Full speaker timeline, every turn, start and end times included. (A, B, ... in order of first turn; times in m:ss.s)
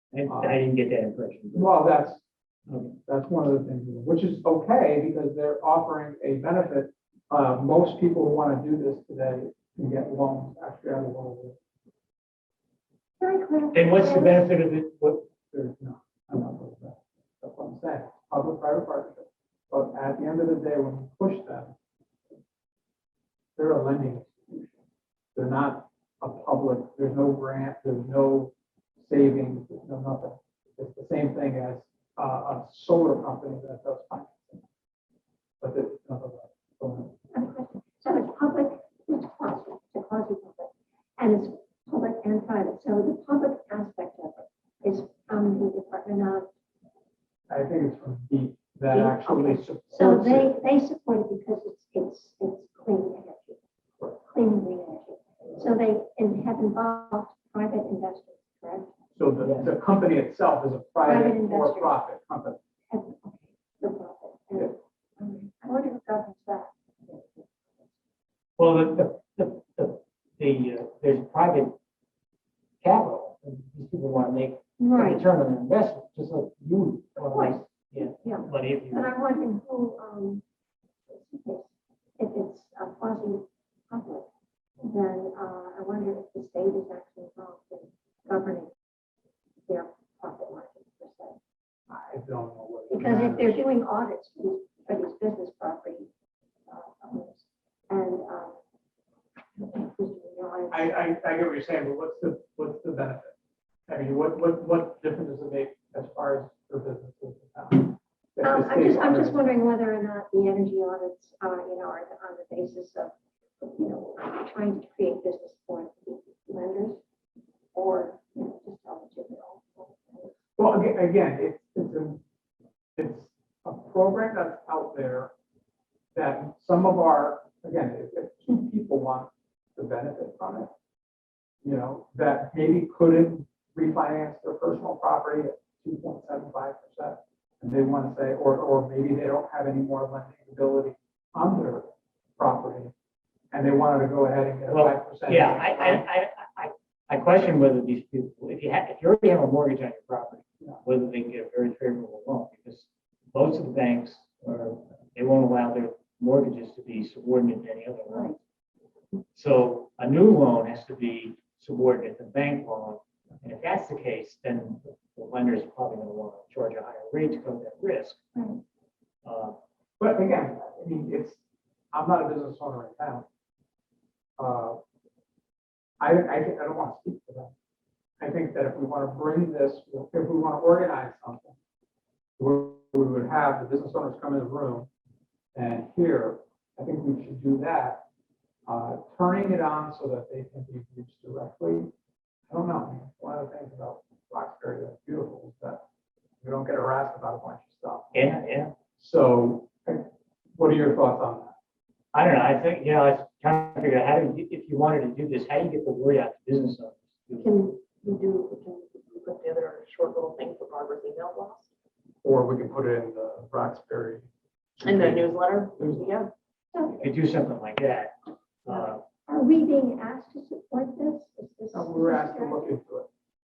0:00.1-0:01.7 A
0:00.3-0:00.6 B
0:01.5-0:02.2 B
0:02.7-0:03.0 A
0:03.1-0:11.6 B
0:13.2-0:14.5 C
0:13.7-0:15.2 A
0:15.5-0:21.8 B
0:23.6-0:24.8 B
0:25.4-0:34.6 B
0:35.6-0:37.1 B
0:37.3-0:46.5 C
0:47.5-0:50.5 B
0:48.9-0:53.6 C
0:54.2-0:58.9 C
0:59.2-1:02.6 B
0:59.4-0:59.7 A
1:01.0-1:01.9 C
1:02.9-1:07.9 C
1:08.6-1:11.7 A
1:12.8-1:19.1 A
1:14.8-1:15.2 C
1:17.2-1:20.4 C
1:21.1-1:24.3 C
1:24.8-1:28.7 C
1:29.7-1:31.4 C
1:31.9-1:33.6 B
1:32.9-1:36.1 C
1:36.7-1:38.6 C
1:39.6-1:40.9 C
1:40.7-1:43.4 B
1:43.9-1:49.5 B
1:48.4-1:57.0 C
1:57.7-2:00.4 C
2:00.6-2:02.2 B
2:03.0-2:05.3 B
2:06.2-2:10.7 B
2:11.6-2:22.9 B
2:23.5-2:26.0 B
2:24.7-2:38.4 A
2:38.1-2:38.4 C
2:39.3-2:48.2 A
2:48.4-2:48.6 C
2:49.2-2:49.6 A
2:50.0-2:51.4 B
2:51.9-2:53.3 B
2:54.4-2:54.8 B
2:56.0-2:57.5 B
2:58.2-3:01.6 B
3:02.4-3:04.9 B
3:05.6-3:08.0 B
3:08.7-3:11.9 B
3:12.5-3:15.8 B
3:16.4-3:18.3 B
3:18.1-3:18.7 A
3:19.0-3:21.6 B
3:22.1-3:27.5 A
3:27.4-3:31.7 D
3:32.2-3:34.3 B
3:34.8-3:36.3 D
3:34.8-3:36.1 B
3:36.7-3:37.1 C
3:37.0-3:38.1 A
3:38.6-3:39.0 A
3:38.7-3:42.8 C
3:41.7-3:43.1 B